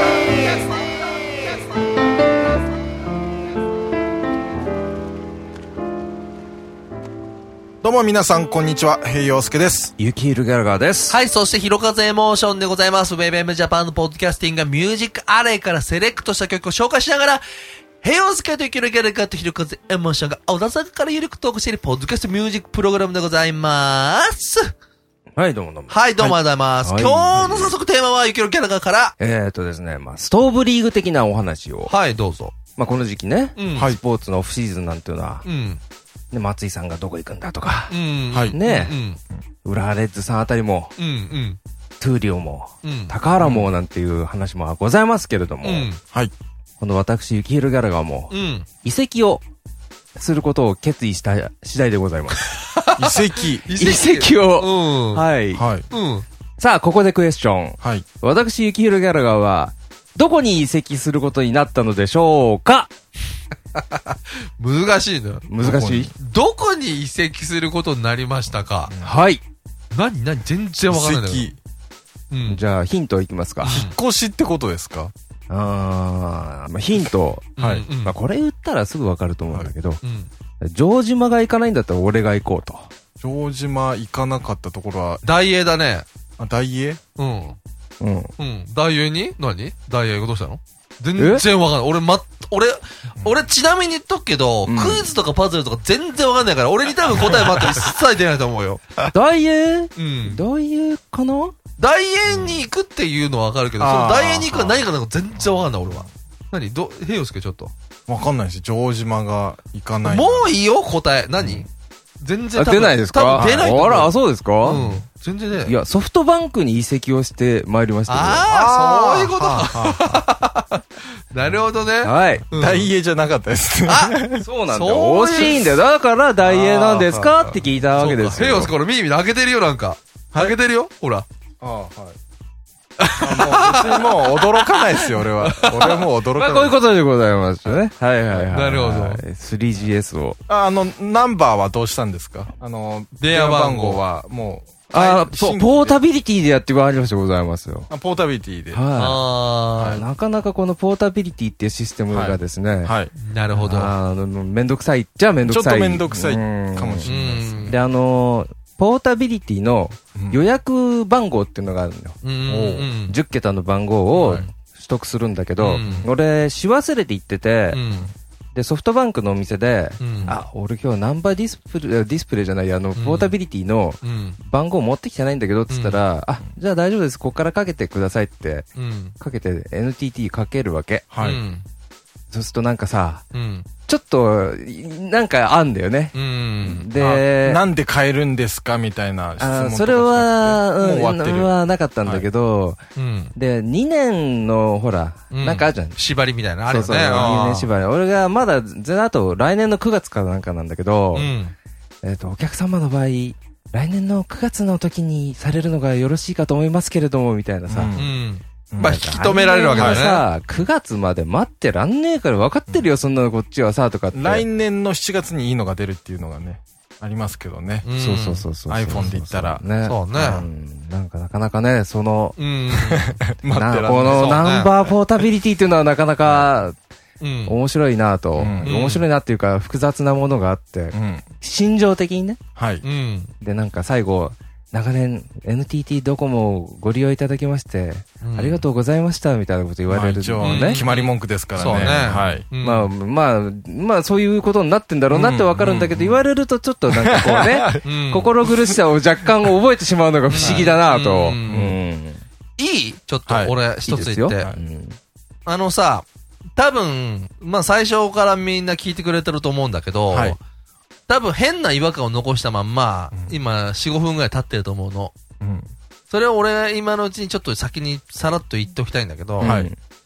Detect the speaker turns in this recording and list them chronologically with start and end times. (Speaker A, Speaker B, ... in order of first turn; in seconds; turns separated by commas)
Speaker A: 7.8-9.9, Speaker B: 10.0-11.2, Speaker C: 11.1-17.4, Speaker C: 18.0-24.6, Speaker B: 25.4-27.8, Speaker C: 25.9-29.1, Speaker B: 29.2-31.9, Speaker C: 31.9-32.5, Speaker B: 32.8-35.5, Speaker C: 33.5-33.9, Speaker A: 33.7-34.0, Speaker C: 35.4-35.8, Speaker B: 36.3-38.0, Speaker C: 37.9-39.2, Speaker A: 38.3-38.6, Speaker B: 38.5-39.0, Speaker B: 39.6-40.9, Speaker C: 41.0-41.6, Speaker B: 42.0-45.9, Speaker C: 42.8-43.6, Speaker C: 45.6-46.0, Speaker A: 46.0-46.3, Speaker B: 46.8-49.4, Speaker C: 48.3-48.7, Speaker B: 50.1-52.4, Speaker C: 52.4-55.3, Speaker A: 53.0-53.8, Speaker B: 53.8-55.6, Speaker A: 55.5-55.9, Speaker C: 55.9-56.2, Speaker B: 56.6-62.9, Speaker A: 57.8-58.1, Speaker C: 63.7-65.5, Speaker B: 65.5-66.1, Speaker A: 65.6-66.1, Speaker C: 66.2-68.9, Speaker A: 68.9-69.1, Speaker B: 69.0-69.4, Speaker C: 69.9-71.5, Speaker A: 70.9-71.6, Speaker C: 72.3-72.6, Speaker B: 72.5-73.8, Speaker C: 73.6-73.9, Speaker A: 73.6-75.1, Speaker B: 75.5-80.0, Speaker C: 77.6-78.2, Speaker A: 77.6-77.8, Speaker C: 80.0-80.3, Speaker B: 80.6-82.9, Speaker A: 83.2-85.2, Speaker C: 85.2-86.0, Speaker A: 86.4-87.0, Speaker C: 87.2-87.6, Speaker B: 88.0-88.3, Speaker C: 88.4-98.8, Speaker B: 91.2-91.4, Speaker B: 94.6-95.1, Speaker A: 97.2-97.8, Speaker B: 99.1-101.5, Speaker C: 100.0-100.4, Speaker C: 101.8-107.7, Speaker A: 102.3-102.6, Speaker A: 103.8-104.8, Speaker A: 108.1-110.5, Speaker C: 110.0-111.7, Speaker A: 111.4-111.7, Speaker C: 112.2-115.8, Speaker B: 112.5-114.8, Speaker A: 113.3-113.8, Speaker A: 114.7-115.0, Speaker B: 115.6-118.5, Speaker C: 118.1-122.9, Speaker A: 118.5-120.3, Speaker B: 122.0-122.5, Speaker A: 122.5-124.5, Speaker C: 123.8-124.2, Speaker B: 124.4-128.7, Speaker C: 124.7-125.7, Speaker C: 126.4-131.2, Speaker A: 131.6-132.2, Speaker C: 133.0-136.0, Speaker A: 133.2-136.8, Speaker B: 136.3-140.4, Speaker C: 138.3-139.2, Speaker A: 140.5-146.0, Speaker C: 143.2-144.0, Speaker B: 144.9-147.9, Speaker A: 147.9-148.9, Speaker B: 148.7-152.9, Speaker C: 148.9-150.0, Speaker A: 152.1-153.1, Speaker C: 153.1-153.9, Speaker B: 153.5-157.1, Speaker A: 155.4-157.8, Speaker C: 157.0-157.8, Speaker B: 157.7-162.2, Speaker A: 160.1-160.4, Speaker C: 162.2-163.2, Speaker A: 162.4-162.9, Speaker B: 163.1-167.8, Speaker C: 164.1-164.5, Speaker C: 165.6-166.1, Speaker C: 167.7-168.1, Speaker B: 168.5-178.7, Speaker C: 170.0-170.4, Speaker C: 172.9-173.3, Speaker C: 174.0-174.4, Speaker C: 175.7-176.0, Speaker C: 178.8-179.1, Speaker B: 179.2-181.1, Speaker A: 181.1-181.4, Speaker C: 181.2-181.6, Speaker B: 182.3-183.2, Speaker C: 183.3-183.7, Speaker B: 183.9-187.6, Speaker C: 186.1-187.2, Speaker A: 187.0-191.5, Speaker B: 189.4-192.8, Speaker C: 192.9-193.3, Speaker B: 193.3-196.0, Speaker C: 195.3-197.7, Speaker B: 196.7-201.4, Speaker C: 201.1-201.5, Speaker B: 202.0-207.9, Speaker A: 207.7-208.2, Speaker C: 207.9-210.3, Speaker A: 208.7-209.0, Speaker B: 208.8-214.5, Speaker A: 209.7-210.1, Speaker A: 214.1-217.9, Speaker C: 217.8-218.4, Speaker B: 218.0-222.4, Speaker A: 218.7-219.6, Speaker C: 219.8-220.4, Speaker C: 222.4-223.1, Speaker A: 222.7-224.4, Speaker B: 223.5-226.8, Speaker C: 224.1-224.7, Speaker C: 227.2-227.6, Speaker B: 227.4-232.4, Speaker A: 228.3-228.7, Speaker C: 228.3-229.1, Speaker A: 230.9-231.3, Speaker A: 232.5-232.8, Speaker C: 232.8-233.3, Speaker B: 233.4-240.8, Speaker C: 238.2-238.6, Speaker A: 239.9-242.5, Speaker C: 240.4-242.9, Speaker B: 241.6-252.2, Speaker A: 245.1-246.2, Speaker A: 246.9-247.9, Speaker C: 247.8-248.3, Speaker C: 250.3-251.7, Speaker A: 250.3-250.8, Speaker A: 251.4-251.7, Speaker C: 252.6-254.5, Speaker A: 253.2-253.6, Speaker B: 253.8-255.0, Speaker C: 255.4-260.4, Speaker A: 260.1-260.4, Speaker C: 261.1-265.1, Speaker A: 263.1-263.4, Speaker A: 265.4-265.7, Speaker C: 266.1-269.5, Speaker B: 269.4-269.8, Speaker A: 269.4-269.7